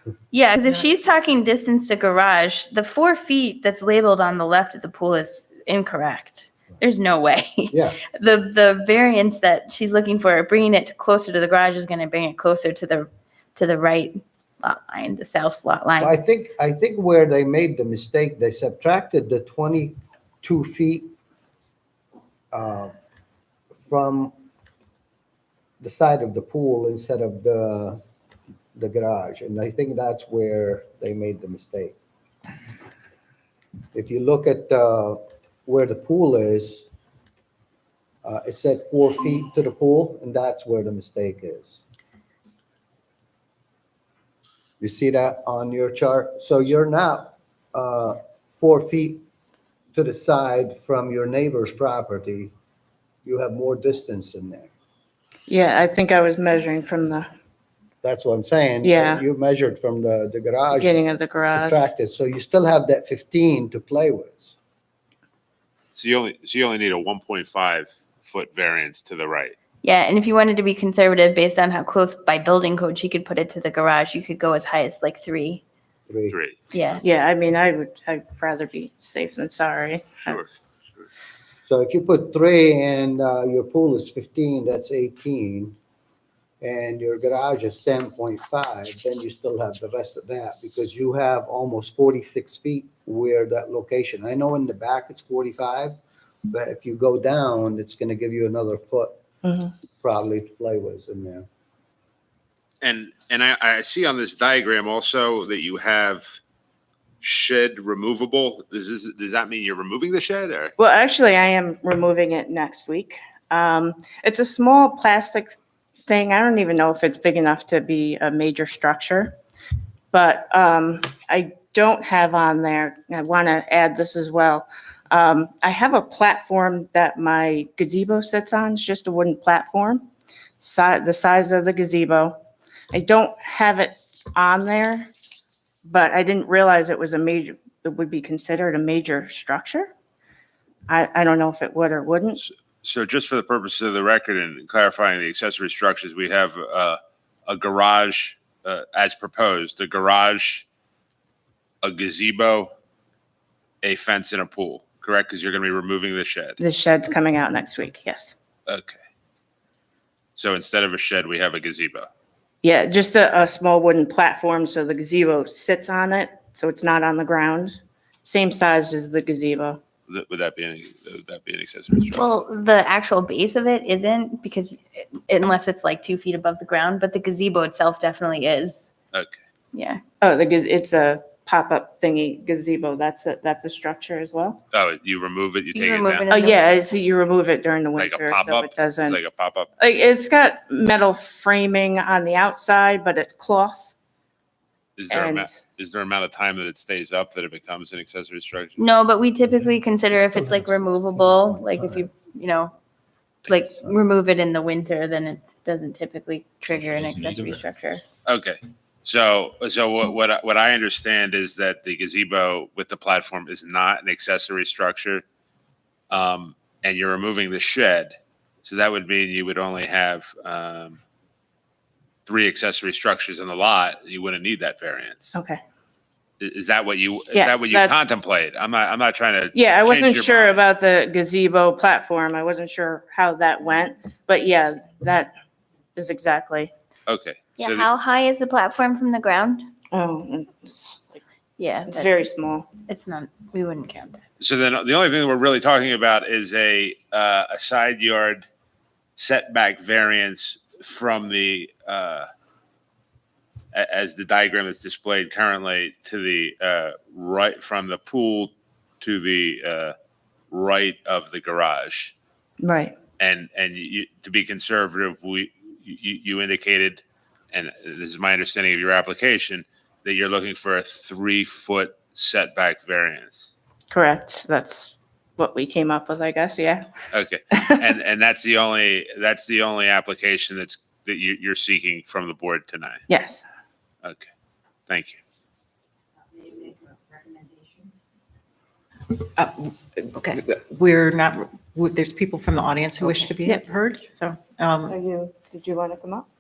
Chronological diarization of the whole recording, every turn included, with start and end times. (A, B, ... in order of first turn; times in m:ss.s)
0:00.3-0:16.2 A
0:07.7-0:08.0 B
0:16.0-0:21.1 B
0:22.5-0:23.0 B
0:23.9-0:24.3 B
0:25.8-0:28.0 B
0:28.8-0:32.0 B
0:33.9-0:36.8 B
0:38.2-0:41.8 B
0:44.8-0:49.2 B
0:49.9-0:52.5 B
0:53.2-0:54.7 B
0:55.5-0:57.3 C
0:58.0-1:04.6 B
0:58.8-0:59.2 C
1:00.7-1:01.8 C
1:05.9-1:09.6 D
1:09.8-1:15.6 A
1:16.1-1:16.4 B
1:16.3-1:16.6 D
1:16.7-1:17.0 A
1:17.0-1:20.4 C
1:21.7-1:25.8 B
1:26.6-1:36.0 B
1:36.5-1:39.2 B
1:39.4-1:39.7 C
1:40.0-1:41.5 B
1:42.8-1:46.4 D
1:47.3-1:50.7 D
1:50.8-1:55.6 C
1:56.1-1:59.4 C
2:00.1-2:10.1 C
2:10.6-2:12.4 C
2:12.9-2:15.1 C
2:15.8-2:19.9 C
2:20.9-2:22.4 C
2:22.4-2:30.7 D
2:31.8-2:32.7 D
2:33.8-2:36.6 D
2:36.6-2:38.3 C
2:38.7-2:39.0 D
2:40.4-2:42.1 D
2:42.6-2:49.8 C
2:50.1-2:52.4 D
2:52.2-2:58.9 A
2:59.1-2:59.4 D
2:59.7-3:00.0 A
3:00.2-3:04.6 C
3:04.7-3:06.3 D
3:05.8-3:06.6 A
3:06.3-3:09.2 C
3:08.0-3:09.7 D
3:09.8-3:14.0 C
3:15.0-3:18.8 D
3:15.1-3:15.6 C
3:18.8-3:22.8 A
3:23.4-3:28.0 A
3:28.3-3:35.2 D
3:36.1-3:41.0 D
3:42.3-3:45.4 D
3:45.3-3:45.6 C
3:46.4-3:50.5 D
3:47.3-3:48.0 C
3:49.5-3:55.3 C
3:56.0-3:56.7 C
3:57.1-3:57.9 D
3:57.6-3:59.7 A
3:59.9-4:01.2 C
4:01.6-4:02.1 A
4:01.9-4:02.7 C
4:02.8-4:04.3 A
4:04.4-4:08.4 D
4:09.2-4:12.3 D
4:13.7-4:20.0 D
4:20.5-4:22.1 D
4:22.6-4:23.0 C
4:23.2-4:33.5 D
4:33.9-4:36.9 C
4:37.1-4:37.4 D
4:37.5-4:37.9 C
4:38.0-4:43.0 D
4:43.1-4:43.4 C
4:44.0-4:44.3 D
4:44.9-4:45.2 D
4:49.1-4:55.0 E
4:53.0-4:53.6 C
4:54.9-4:56.3 C